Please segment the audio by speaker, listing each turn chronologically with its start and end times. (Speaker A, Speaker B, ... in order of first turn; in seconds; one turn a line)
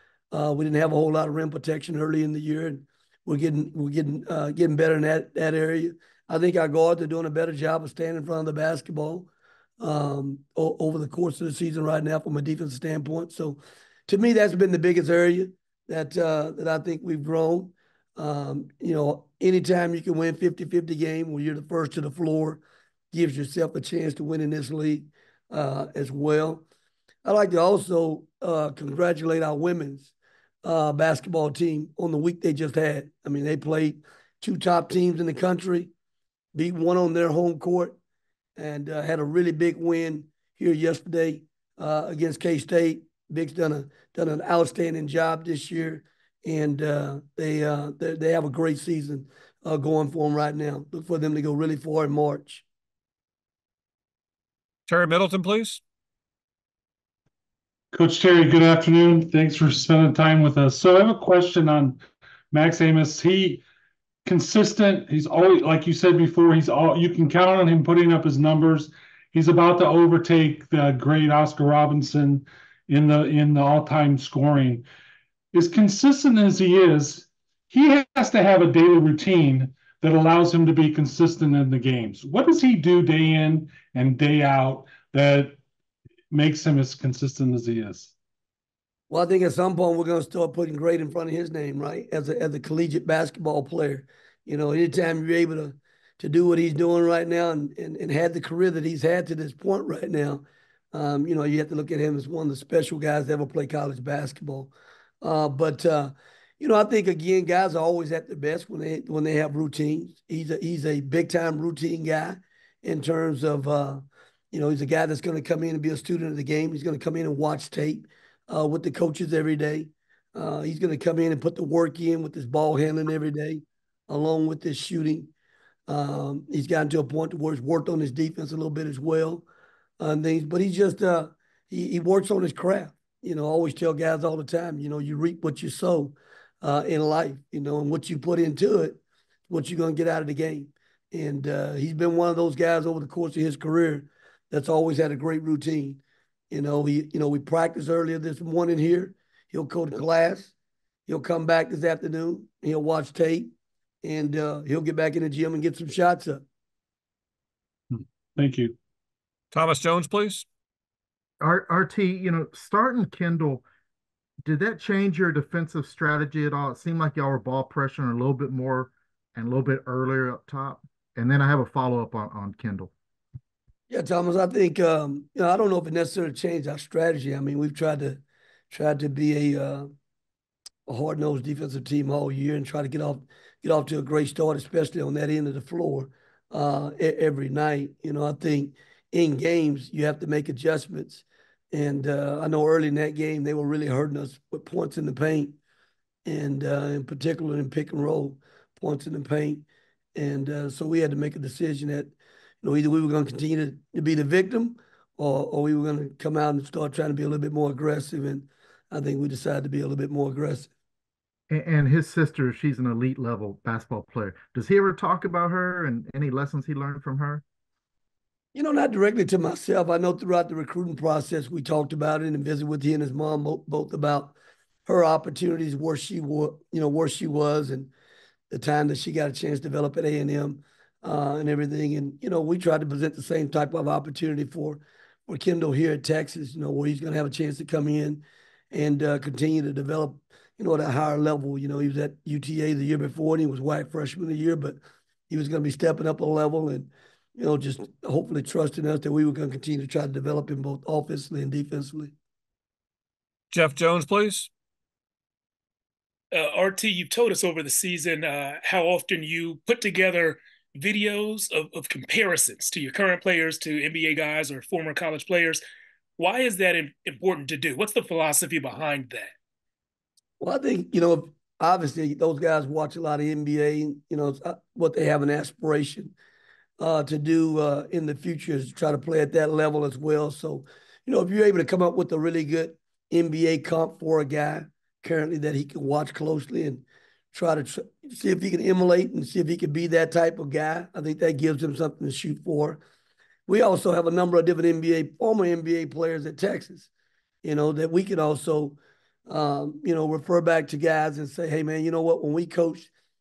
Speaker A: 0.3-9.3
Speaker A: 9.8-22.6
Speaker A: 23.1-26.6
Speaker A: 27.2-30.1
Speaker A: 30.6-35.9
Speaker A: 36.5-38.0
Speaker A: 38.6-52.6
Speaker B: 54.9-55.8
Speaker C: 57.9-63.6
Speaker C: 64.2-74.8
Speaker C: 75.5-85.6
Speaker C: 86.3-88.1
Speaker A: 89.1-125.3
Speaker A: 125.9-129.4
Speaker A: 130.0-146.0
Speaker A: 146.5-150.5
Speaker A: 151.1-153.5
Speaker A: 154.0-156.4
Speaker C: 157.9-158.8
Speaker B: 159.5-160.4
Speaker D: 161.4-163.6
Speaker D: 164.4-172.9
Speaker A: 173.9-179.9
Speaker A: 180.9-195.6
Speaker A: 196.2-199.6
Speaker A: 200.2-210.7
Speaker D: 211.5-217.4
Speaker A: 218.5-224.3
Speaker A: 224.9-227.9
Speaker A: 228.5-252.1
Speaker B: 253.5-254.5
Speaker E: 256.3-265.6
Speaker E: 266.2-269.3
Speaker A: 270.4-276.1
Speaker A: 276.8-292.8
Speaker A: 293.5-296.9
Speaker A: 297.4-298.8
Speaker A: 299.3-302.9